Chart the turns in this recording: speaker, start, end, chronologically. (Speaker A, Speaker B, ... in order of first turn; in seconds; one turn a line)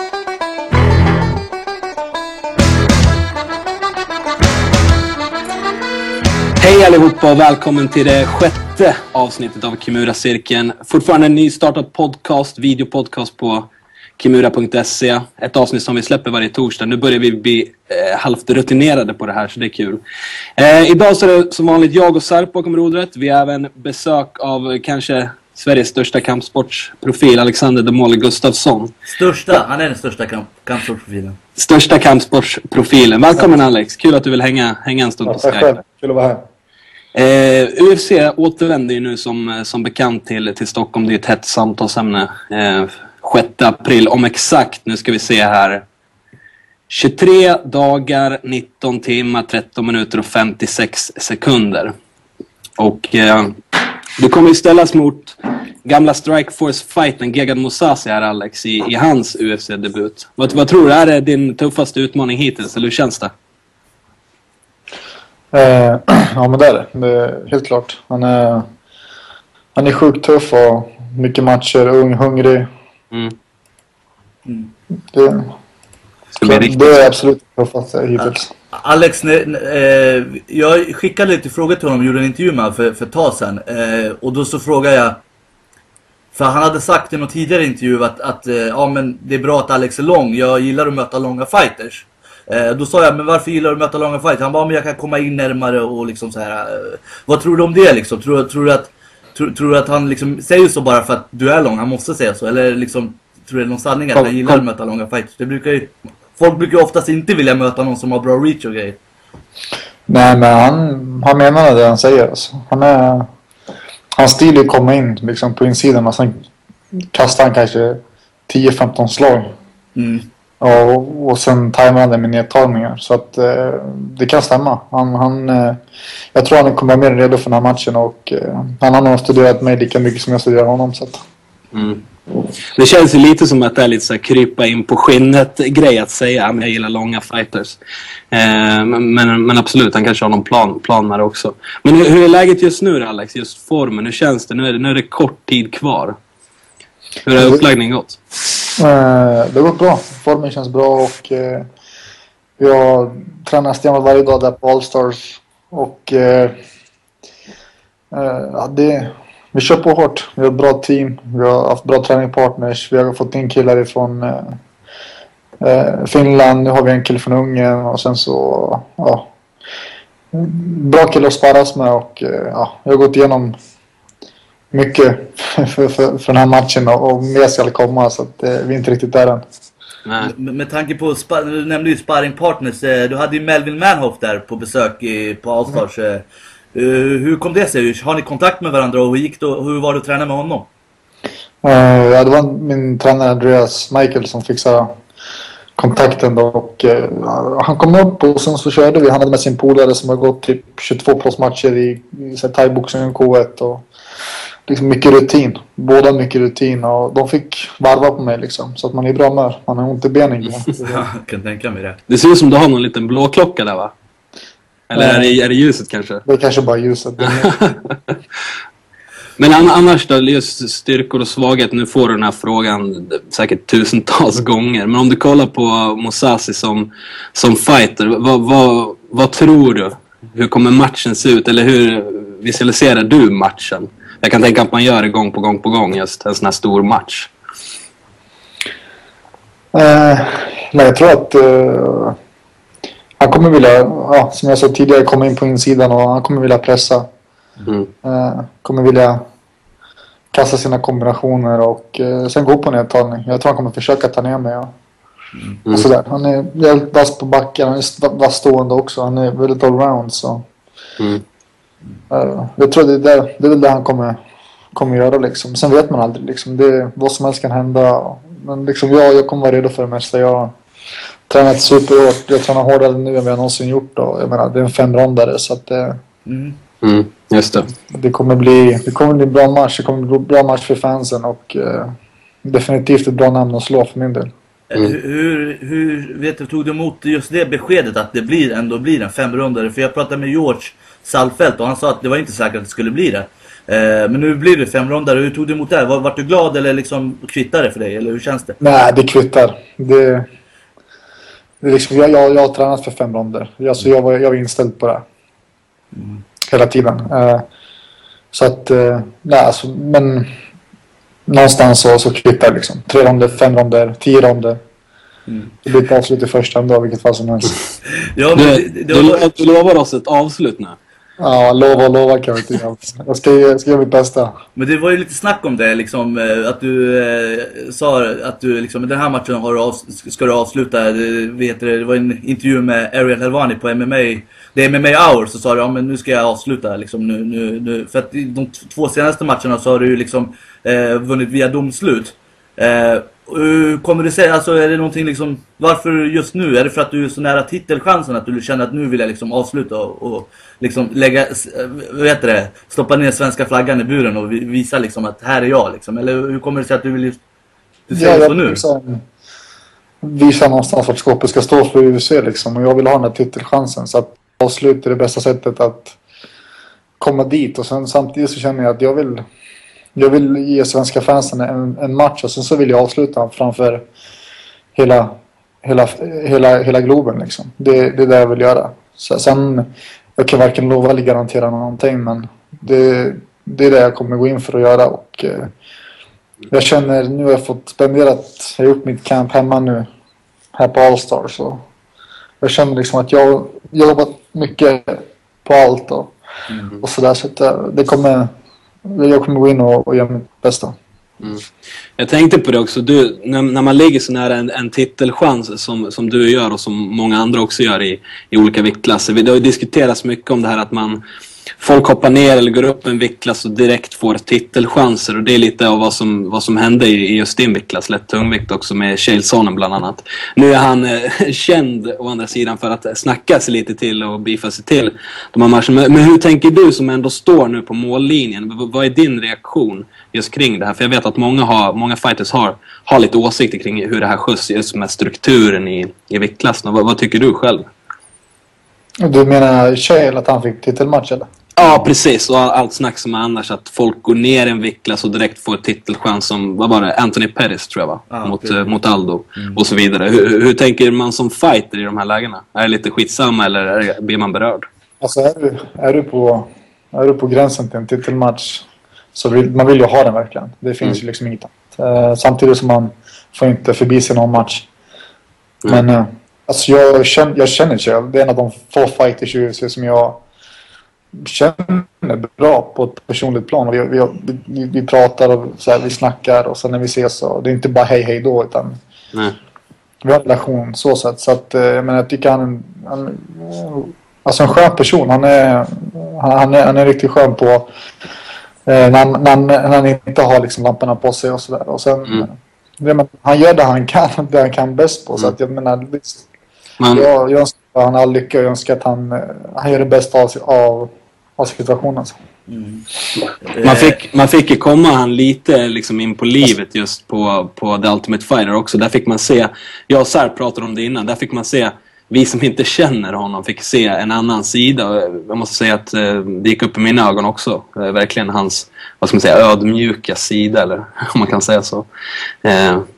Speaker A: 6.6-20.0
Speaker A: 20.6-28.9
Speaker B: 29.1-31.4
Speaker A: 31.6-35.8
Speaker C: 35.2-36.4
Speaker A: 37.1-45.8
Speaker A: 46.9-51.9
Speaker A: 52.8-63.3
Speaker C: 65.5-68.7
Speaker C: 69.7-72.7
Speaker B: 74.5-74.7
Speaker C: 75.1-75.5
Speaker A: 76.4-77.1
Speaker C: 76.4-78.5
Speaker B: 78.2-85.2
Speaker B: 86.3-109.0
Speaker C: 110.1-113.3
Speaker C: 114.2-116.4
Speaker C: 117.1-119.5
Speaker B: 120.0-120.3
Speaker C: 120.6-125.8
Speaker C: 126.3-131.2
Speaker A: 131.7-132.0
Speaker A: 132.8-137.8
Speaker A: 138.3-146.2
Speaker A: 147.2-148.2
Speaker C: 147.4-147.6
Speaker C: 148.8-151.7
Speaker C: 152.6-156.6
Speaker C: 158.1-164.6
Speaker C: 165.6-169.3
Speaker C: 170.3-173.5
Speaker C: 174.7-179.4
Speaker A: 180.1-180.3
Speaker B: 180.2-190.7
Speaker C: 191.6-194.9
Speaker C: 195.8-203.8
Speaker C: 204.7-211.0
Speaker B: 210.8-212.0
Speaker A: 212.1-213.9
Speaker A: 214.9-216.2
Speaker C: 214.9-215.3
Speaker C: 216.2-217.6
Speaker A: 217.2-218.2
Speaker A: 219.4-237.3
Speaker C: 239.7-242.2
Speaker C: 243.2-247.1
Speaker C: 248.0-249.2
Speaker C: 250.3-254.7
Speaker C: 255.7-260.4
Speaker C: 262.1-264.2
Speaker C: 264.7-270.5
Speaker C: 271.3-276.0
Speaker B: 276.3-276.6
Speaker A: 276.8-277.7
Speaker C: 277.9-284.3
Speaker B: 284.7-298.6
Speaker C: 298.6-300.3
Speaker C: 301.6-305.0
Speaker B: 305.9-306.2
Speaker C: 306.5-307.4
Speaker C: 308.3-310.3
Speaker C: 311.3-314.6
Speaker C: 315.6-317.6
Speaker B: 318.1-319.2
Speaker A: 318.4-320.8
Speaker C: 321.2-324.3
Speaker B: 324.6-357.2
Speaker B: 357.9-358.6
Speaker C: 357.9-359.0
Speaker C: 360.0-365.9
Speaker C: 367.0-369.2
Speaker C: 369.9-373.9
Speaker C: 374.7-385.5
Speaker C: 386.5-389.9
Speaker C: 390.5-391.6
Speaker C: 392.4-396.1
Speaker C: 396.8-398.3
Speaker C: 398.9-400.8
Speaker A: 402.0-411.0
Speaker A: 411.6-437.6
Speaker C: 439.0-441.3
Speaker A: 441.6-454.6
Speaker B: 448.1-448.7
Speaker C: 455.0-464.7
Speaker C: 465.6-470.2
Speaker C: 471.1-478.8
Speaker C: 480.0-487.7
Speaker C: 488.7-496.2
Speaker A: 496.8-497.1
Speaker C: 496.9-502.2
Speaker B: 502.5-502.9
Speaker B: 503.4-504.0
Speaker A: 503.6-521.9
Speaker A: 522.4-522.9